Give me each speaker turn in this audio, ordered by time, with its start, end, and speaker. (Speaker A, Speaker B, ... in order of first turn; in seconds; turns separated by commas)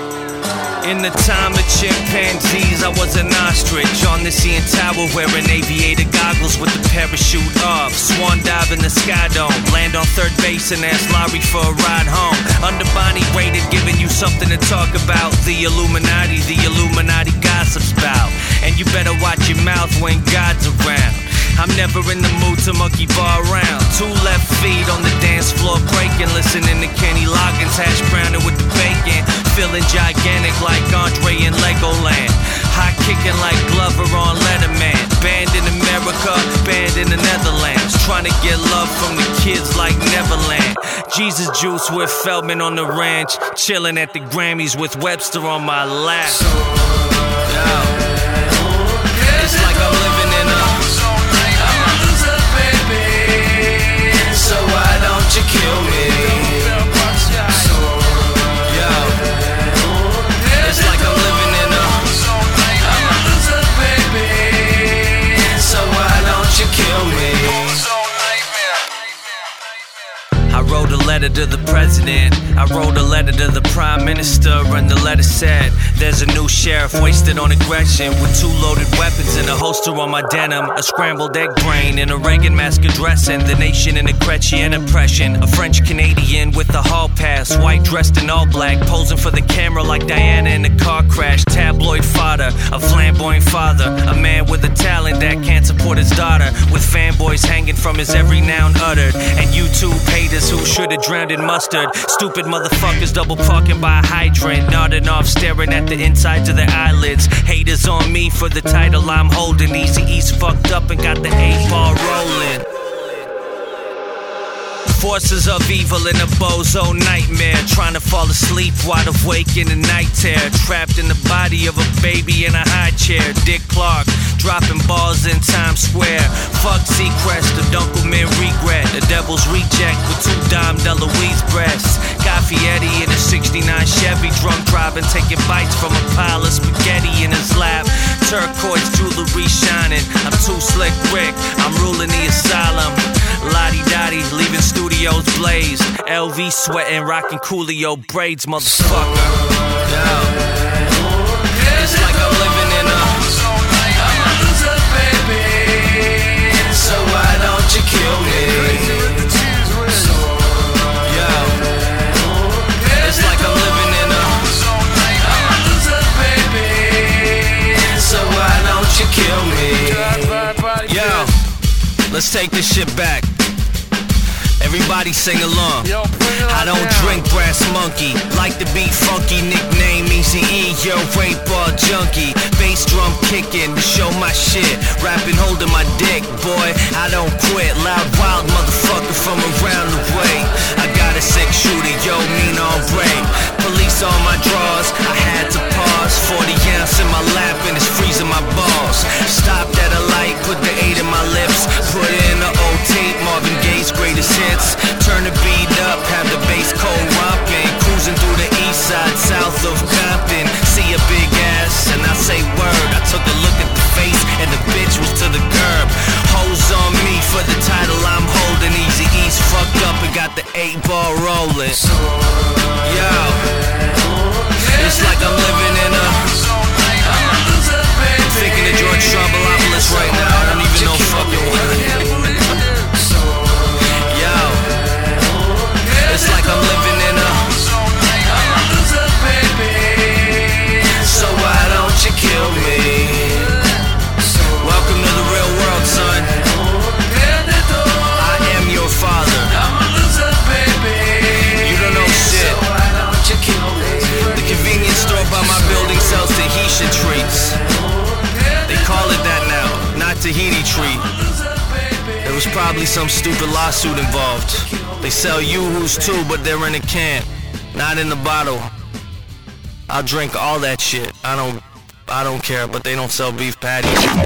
Speaker A: 0.8-46.4, Speaker A: 47.4-48.0, Speaker A: 49.2-52.4, Speaker A: 53.0-57.8, Speaker A: 58.6-59.2, Speaker A: 60.5-67.9, Speaker A: 70.5-112.7, Speaker A: 114.8-150.4, Speaker A: 151.5-160.2, Speaker A: 161.0-161.6, Speaker A: 162.9-171.4, Speaker A: 172.1-173.3, Speaker A: 174.6-221.9, Speaker A: 222.8-223.6, Speaker A: 224.6-226.5, Speaker A: 228.0-232.7, Speaker A: 234.0-234.8, Speaker A: 235.9-243.6, Speaker A: 244.3-246.4, Speaker A: 247.9-249.8, Speaker A: 251.0-257.6, Speaker A: 258.6-261.1, Speaker A: 262.2-268.7, Speaker A: 269.9-274.1